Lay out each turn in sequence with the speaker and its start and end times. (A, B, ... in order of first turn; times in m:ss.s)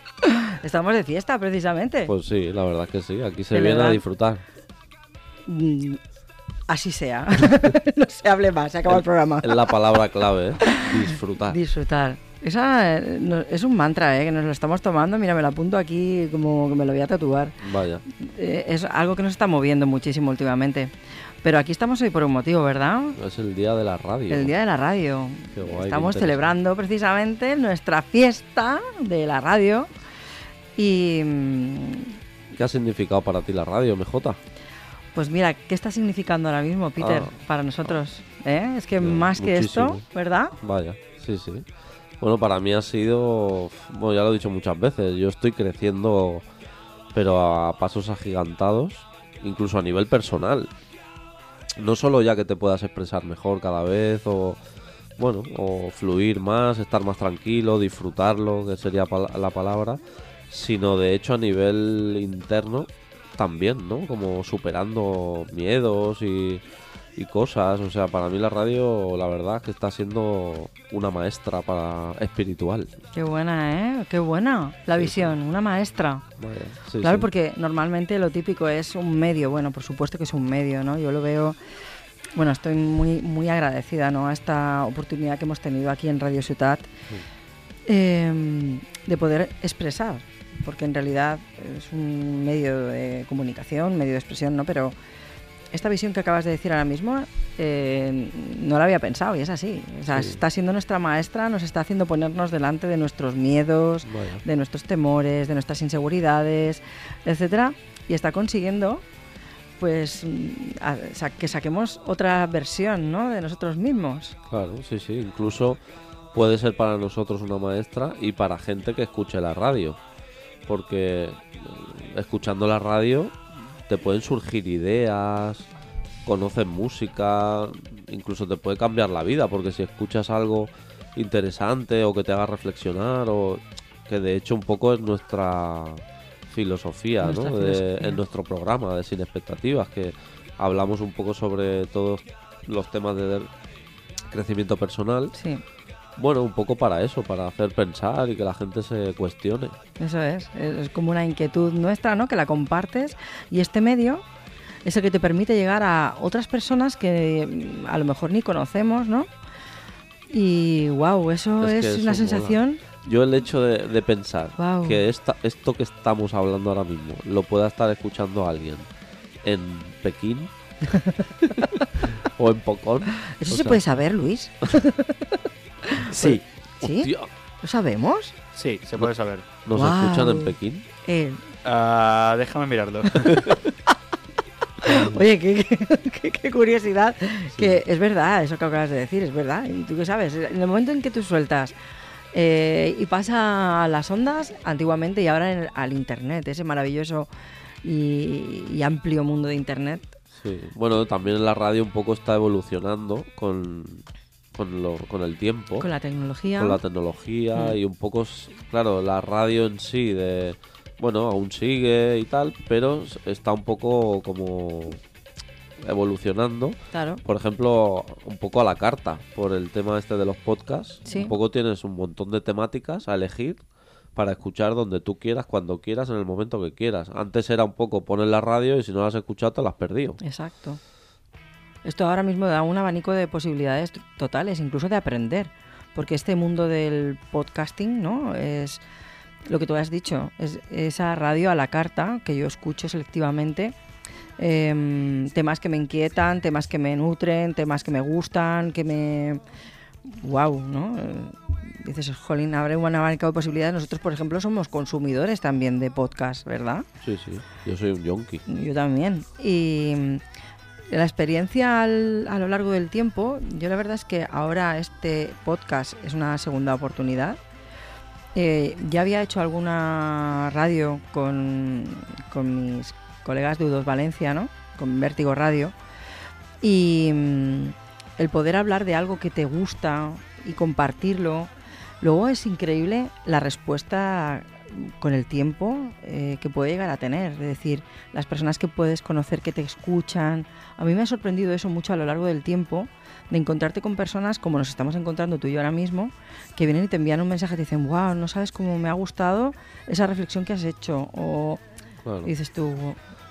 0:00.2-0:02.1 A
0:02.1-0:04.4 B
0:03.5-0:04.0 A
0:05.5-0:06.0 A
0:06.7-0:09.8 A
0:08.9-0:11.6 B
0:10.6-0:17.6 A
0:17.6-0:18.0 B
0:18.1-0:20.9 A
0:21.4-0:23.2 A
0:23.2-0:24.5 B
0:24.3-0:29.9 A
0:25.6-0:26.6 B
0:30.8-0:32.2 A
0:32.5-0:34.4 B
0:35.1-0:40.6 A
0:37.0-0:37.3 B
0:39.0-0:40.0 B
0:40.6-0:41.7 B
0:42.2-0:46.4 B
0:47.1-0:50.7 B
0:51.8-0:54.6 B
0:55.2-1:06.6 B
1:07.2-1:12.9 B
1:13.2-1:16.2 A
1:16.4-1:17.3 B
1:17.0-1:21.6 A
1:22.4-1:26.9 A
1:27.9-1:35.0 A
1:35.7-1:49.0 A
1:40.1-1:40.4 B
1:44.1-1:44.4 B
1:49.8-1:54.4 A
1:54.5-1:55.8 B
1:56.3-2:00.0 B
2:00.7-2:05.7 B
2:06.2-2:23.5 B
2:17.2-2:18.2 A
2:24.3-2:25.4 B
2:25.4-2:25.6 A
2:26.2-2:29.8 B
2:30.0-2:34.2 A
2:34.8-2:39.3 A
2:40.3-2:42.8 A
2:41.6-2:48.9 B
2:44.6-2:45.1 A
2:49.4-2:50.5 B
2:50.9-2:51.8 A
2:51.4-2:53.8 B
2:53.2-2:57.1 A
2:56.2-2:57.3 B
2:57.6-2:58.3 A
2:58.5-2:59.5 C
2:59.6-3:00.9 B
2:59.8-3:01.4 A
3:01.6-3:03.4 C
3:03.2-3:03.7 A
3:04.8-3:11.8 A
3:07.5-3:07.8 B
3:12.3-3:17.3 A
3:17.8-3:20.1 A
3:20.4-3:25.9 B
3:25.8-3:26.8 A
3:26.6-3:35.0 B
3:35.8-3:43.6 B
3:36.9-3:37.2 A
3:41.1-3:41.3 A
3:44.2-3:50.2 B
3:50.2-3:50.8 A
3:51.8-3:58.8 A
3:59.5-4:03.7 A
4:04.4-4:09.4 A
4:10.1-4:16.9 A
4:17.0-4:18.4 B
4:18.5-4:20.2 A
4:20.9-4:27.4 A
4:28.4-4:35.8 A
4:36.6-5:01.6 A
5:02.0-5:02.3 B
5:02.2-5:03.0 A